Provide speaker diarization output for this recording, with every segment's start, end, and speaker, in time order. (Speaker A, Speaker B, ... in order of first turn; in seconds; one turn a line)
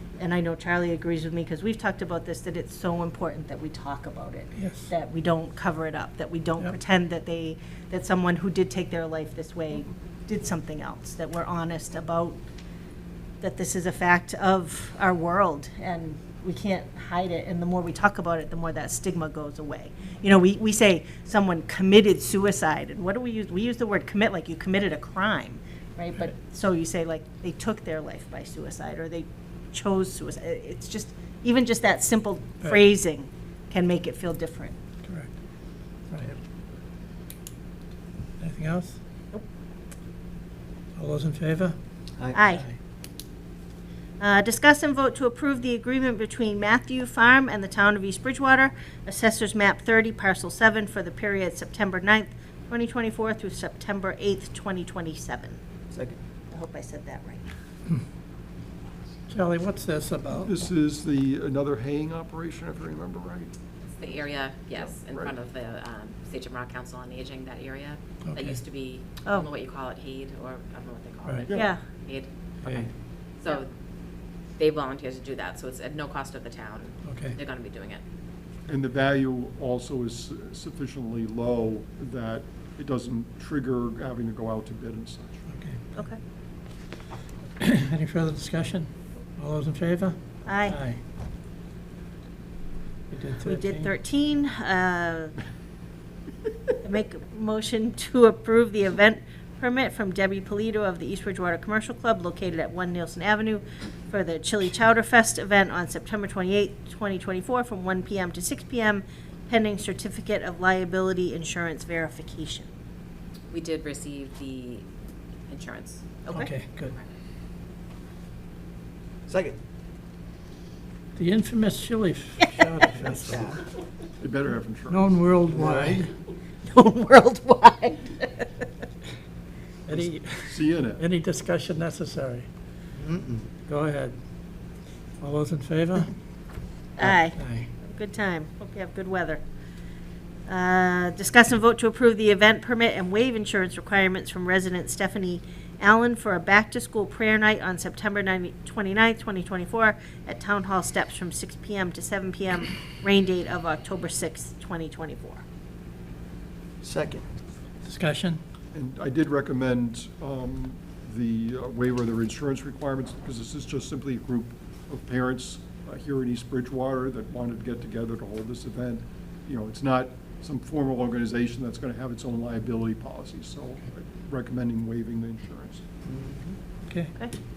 Speaker A: 0.2-12.4
Speaker B: 4.5-4.9
Speaker A: 13.4-34.8
Speaker B: 35.0-35.3
Speaker B: 36.1-36.4
Speaker B: 38.4-39.0
Speaker B: 41.0-41.8
Speaker A: 42.3-42.6
Speaker B: 42.5-42.8
Speaker A: 44.2-55.6
Speaker C: 55.9-56.2
Speaker A: 56.5-57.4
Speaker B: 59.3-60.5
Speaker D: 60.4-63.5
Speaker E: 63.9-73.7
Speaker D: 64.8-65.3
Speaker B: 68.2-68.6
Speaker B: 71.2-71.5
Speaker D: 71.5-71.7
Speaker A: 71.5-71.8
Speaker B: 72.6-72.9
Speaker E: 74.6-78.0
Speaker B: 77.0-77.4
Speaker D: 78.7-85.4
Speaker B: 85.5-86.1
Speaker A: 85.9-86.2
Speaker B: 87.6-91.0
Speaker A: 90.5-90.8
Speaker B: 93.1-93.9
Speaker A: 93.4-95.3
Speaker A: 96.8-112.7
Speaker E: 113.5-114.9
Speaker E: 115.5-116.1
Speaker A: 116.2-116.5
Speaker B: 116.3-116.9
Speaker C: 119.2-119.6
Speaker B: 121.2-123.5
Speaker C: 123.1-123.6
Speaker D: 124.2-125.2
Speaker B: 124.9-126.1
Speaker C: 125.5-126.0
Speaker A: 126.7-128.5
Speaker B: 129.8-132.5
Speaker D: 129.9-131.0
Speaker C: 132.9-133.4
Speaker B: 133.7-134.2
Speaker B: 135.2-136.1
Speaker A: 137.0-139.4
Speaker B: 137.3-137.7
Speaker A: 140.5-155.4
Speaker C: 156.8-157.2
Speaker B: 157.8-158.4
Speaker D: 158.7-175.8
Speaker C: 176.1-176.6
Speaker B: 176.9-177.1